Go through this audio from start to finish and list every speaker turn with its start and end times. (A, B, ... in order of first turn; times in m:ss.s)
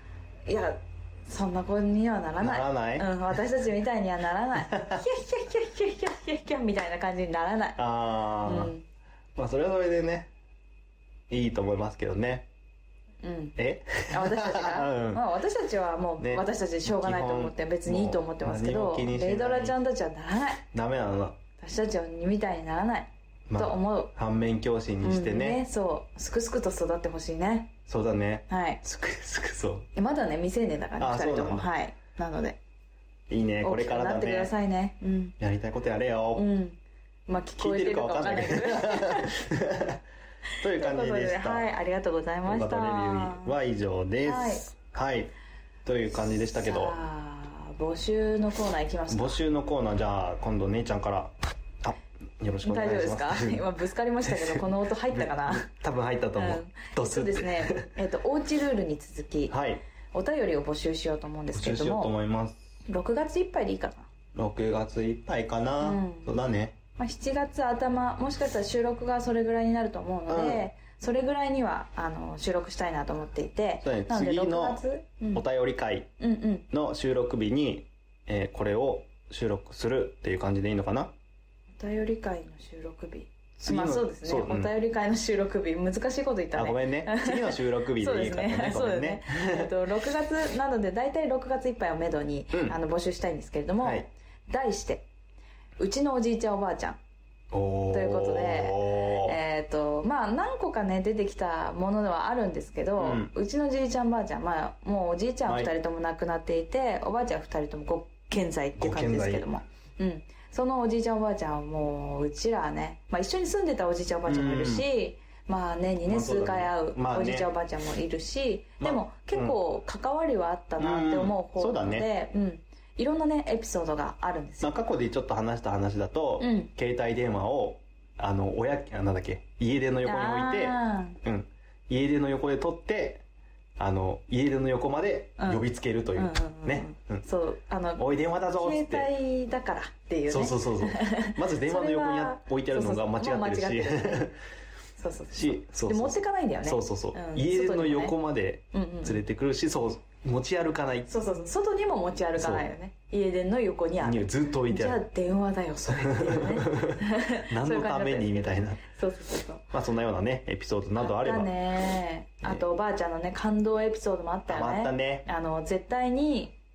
0:00.5-0:07.8 A
0:02.4-0:03.1 B
0:04.7-0:05.0 B
0:07.8-0:08.7 B
0:08.4-0:08.8 A
0:09.4-0:10.3 B
0:11.3-0:12.5 B
0:13.2-0:13.6 A
0:13.6-0:15.2 B
0:14.1-0:20.6 A
0:16.2-0:19.8 B
0:20.7-0:21.4 B
0:21.6-0:24.1 A
0:23.5-0:25.6 B
0:25.0-0:27.7 A
0:27.9-0:29.9 B
0:28.5-0:28.8 A
0:29.9-0:32.6 A
0:31.0-0:31.7 B
0:33.3-0:34.5 B
0:33.6-0:35.3 A
0:35.4-0:36.4 B
0:36.3-0:39.4 A
0:37.6-0:40.0 B
0:40.6-0:41.7 B
0:40.7-0:43.5 A
0:42.4-0:45.3 B
0:44.2-0:44.7 A
0:45.8-0:47.0 B
0:46.6-0:49.4 A
0:49.1-0:53.7 B
0:52.6-0:55.7 A
0:54.2-0:57.9 B
0:56.4-0:59.5 A
0:59.5-0:59.8 B
1:00.1-1:02.1 A
1:01.5-1:02.7 B
1:02.8-1:04.1 A
1:04.3-1:06.8 B
1:05.8-1:06.3 A
1:07.0-1:15.4 A
1:10.3-1:10.7 B
1:13.8-1:14.8 B
1:15.3-1:16.1 B
1:16.2-1:16.6 A
1:16.7-1:21.1 B
1:21.8-1:35.1 A
1:23.6-1:24.7 B
1:26.5-1:29.7 B
1:32.5-1:32.8 B
1:33.8-1:34.1 B
1:35.8-1:37.0 A
1:37.5-1:39.4 B
1:37.9-2:04.8 A
1:43.0-1:43.3 B
1:48.8-1:49.4 B
1:54.3-1:54.9 B
1:56.0-1:57.5 B
1:58.8-1:59.6 B
2:00.8-2:02.1 B
2:04.6-2:13.2 B
2:06.4-2:06.7 A
2:10.0-2:11.2 A
2:13.8-2:17.2 B
2:15.4-2:24.3 A
2:18.0-2:19.1 B
2:20.3-2:24.4 B
2:25.0-2:28.2 A
2:25.3-2:31.1 B
2:28.7-2:29.2 A
2:31.1-2:39.6 A
2:32.4-2:32.7 B
2:34.0-2:35.0 B
2:35.9-2:38.8 B
2:39.7-2:41.5 B
2:41.0-2:46.5 A
2:44.5-2:45.2 B